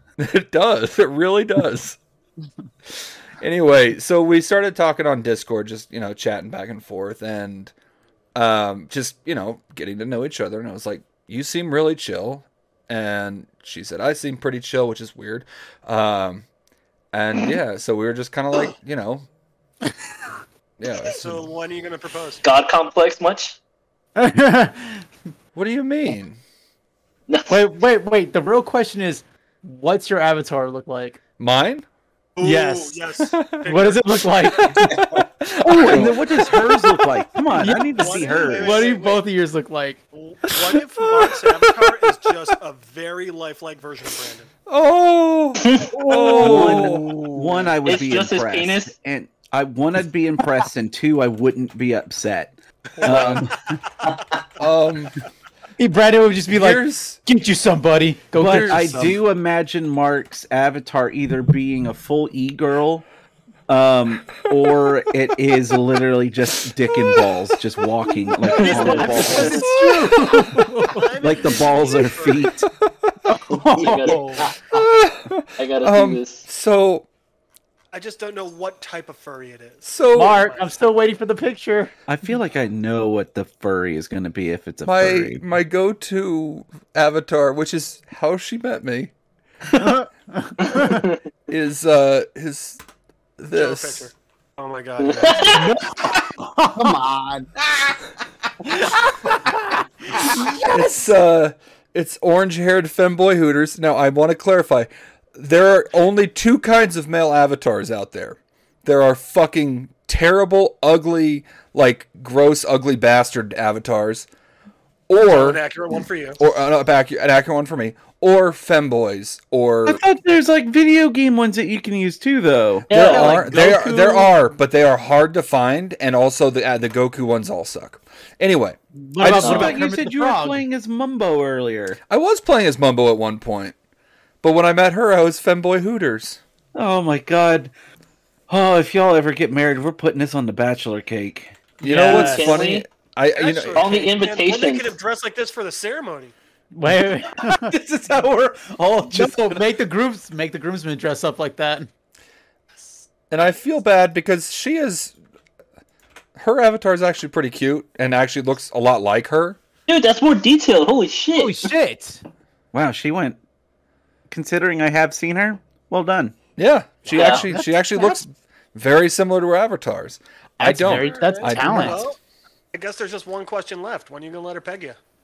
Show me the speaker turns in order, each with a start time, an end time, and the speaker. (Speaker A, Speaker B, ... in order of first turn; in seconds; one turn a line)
Speaker A: 0.2-2.0
Speaker A: 3.4-7.7
Speaker A: 8.3-16.4
Speaker A: 17.1-19.2
Speaker A: 20.8-21.4
Speaker B: 21.2-22.4
Speaker C: 22.4-23.6
Speaker D: 24.2-25.0
Speaker A: 25.5-26.4
Speaker D: 27.5-31.2
Speaker A: 31.4-31.9
Speaker B: 32.4-35.2
Speaker D: 32.4-33.0
Speaker A: 33.3-33.7
Speaker D: 33.6-36.2
Speaker A: 34.8-36.5
Speaker E: 35.7-38.9
Speaker D: 37.5-40.0
Speaker B: 37.9-39.2
Speaker B: 40.1-44.5
Speaker A: 44.6-47.2
Speaker C: 45.6-45.9
Speaker E: 45.9-53.6
Speaker D: 46.1-47.7
Speaker C: 47.8-48.9
Speaker B: 53.0-53.4
Speaker C: 53.0-53.4
Speaker A: 54.6-55.1
Speaker D: 55.8-59.2
Speaker A: 56.5-57.2
Speaker A: 58.4-58.9
Speaker E: 58.4-63.0
Speaker E: 63.7-69.6
Speaker A: 67.0-67.3
Speaker C: 68.5-69.5
Speaker D: 68.7-71.0
Speaker A: 69.5-70.8
Speaker B: 70.9-72.6
Speaker E: 71.2-72.7
Speaker A: 72.6-72.9
Speaker D: 73.3-74.5
Speaker C: 73.5-74.4
Speaker B: 74.1-74.4
Speaker A: 74.6-77.0
Speaker C: 75.6-76.4
Speaker B: 77.9-80.7
Speaker A: 79.8-80.5
Speaker D: 80.1-81.9
Speaker E: 82.1-85.4
Speaker A: 84.8-89.1
Speaker D: 89.8-91.0
Speaker C: 90.7-91.1
Speaker A: 91.5-92.8
Speaker A: 93.4-94.1
Speaker B: 93.5-95.7
Speaker C: 95.0-95.7
Speaker D: 95.5-97.0
Speaker F: 96.7-98.0
Speaker D: 98.7-99.6
Speaker D: 100.2-100.5
Speaker F: 100.2-100.8
Speaker A: 100.7-114.3
Speaker A: 115.1-115.6
Speaker B: 115.2-116.4
Speaker A: 116.4-120.0
Speaker E: 119.8-124.3
Speaker A: 122.9-128.8
Speaker C: 122.9-123.5
Speaker D: 128.9-130.6
Speaker E: 129.2-132.0
Speaker C: 129.3-129.8
Speaker A: 132.1-133.8
Speaker A: 134.4-136.4
Speaker E: 136.7-137.7
Speaker E: 138.5-141.6
Speaker D: 141.8-142.6
Speaker A: 141.8-144.1
Speaker C: 142.0-142.9
Speaker B: 143.3-146.3
Speaker C: 143.7-144.9
Speaker D: 146.7-147.7
Speaker E: 147.4-149.7
Speaker D: 149.1-151.9
Speaker B: 152.7-153.1
Speaker A: 153.3-155.1
Speaker A: 156.4-159.6
Speaker C: 159.9-161.7
Speaker D: 161.3-162.2
Speaker E: 162.7-163.4
Speaker E: 164.3-166.4
Speaker A: 166.6-172.1
Speaker C: 167.1-167.4
Speaker D: 170.6-172.0
Speaker B: 170.8-172.2
Speaker B: 172.7-175.0